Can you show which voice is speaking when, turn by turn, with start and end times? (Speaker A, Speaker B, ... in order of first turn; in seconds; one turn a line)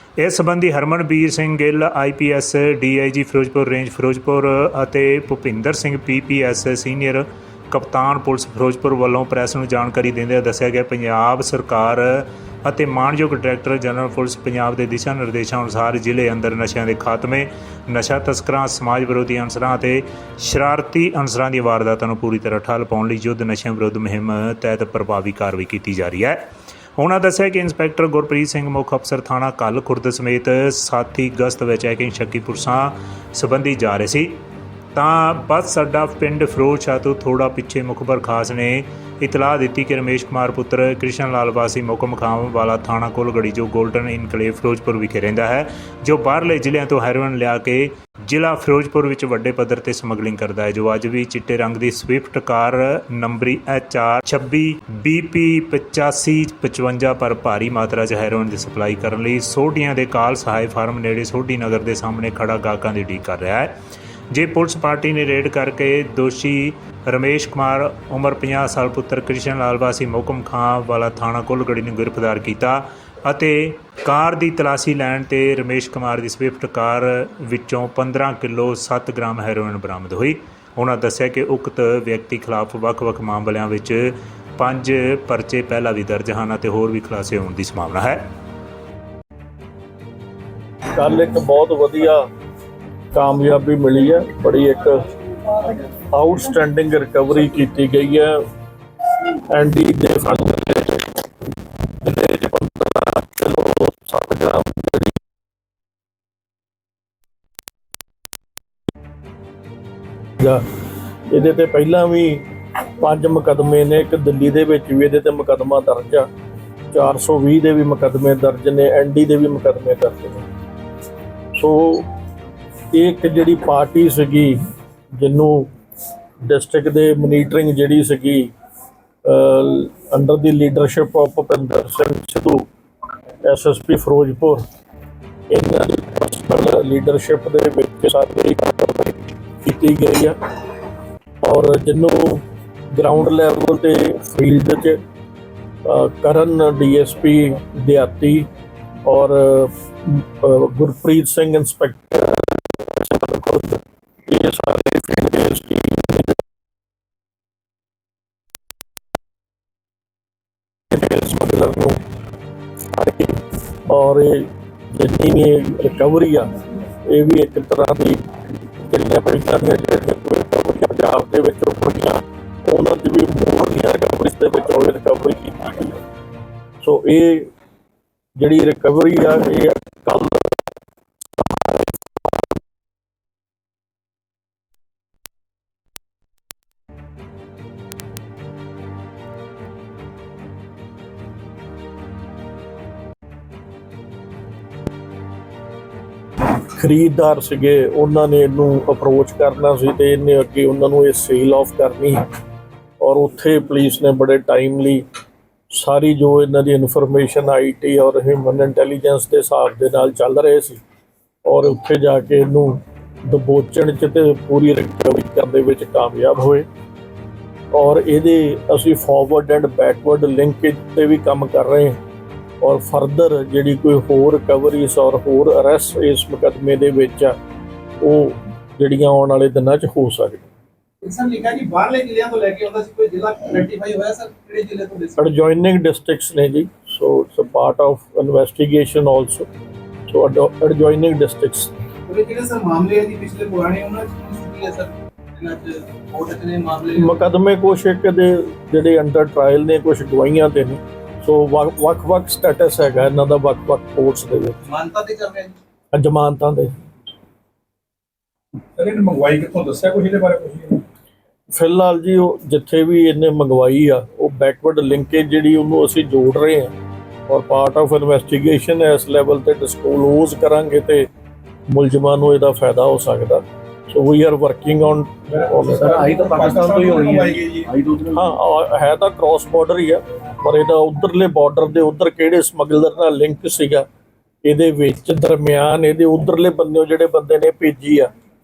Speaker A: 0.2-26.4
Speaker A: 27.0-34.4
Speaker A: 34.9-63.7
Speaker A: 64.3-88.2
Speaker B: 90.9-92.2
Speaker B: 93.1-98.4
Speaker B: 99.5-101.3
Speaker B: 102.0-105.2
Speaker B: 111.3-112.5
Speaker B: 113.0-116.3
Speaker B: 116.9-120.4
Speaker B: 121.5-122.1
Speaker B: 122.9-124.6
Speaker B: 125.2-125.7
Speaker B: 126.4-128.5
Speaker B: 129.2-132.7
Speaker B: 133.4-134.6
Speaker B: 135.5-140.3
Speaker B: 141.4-145.0
Speaker B: 145.8-148.5
Speaker B: 149.1-156.3
Speaker B: 160.9-162.0
Speaker B: 162.9-166.5
Speaker B: 167.0-176.0
Speaker B: 176.8-177.5
Speaker B: 178.4-180.7
Speaker B: 196.7-202.2
Speaker B: 203.0-205.0
Speaker B: 205.7-210.8
Speaker B: 211.4-216.7
Speaker B: 217.7-222.0
Speaker B: 222.6-227.3
Speaker B: 228.0-230.5
Speaker C: 231.0-235.2
Speaker B: 235.2-239.5
Speaker B: 240.1-241.7
Speaker C: 242.1-247.2
Speaker B: 246.9-254.6
Speaker C: 254.6-255.5
Speaker B: 255.9-256.8
Speaker C: 258.8-260.8
Speaker B: 261.5-266.7
Speaker B: 267.3-271.1
Speaker B: 271.7-277.2
Speaker C: 275.5-277.8
Speaker D: 275.9-278.1
Speaker B: 278.1-283.9
Speaker B: 284.4-288.1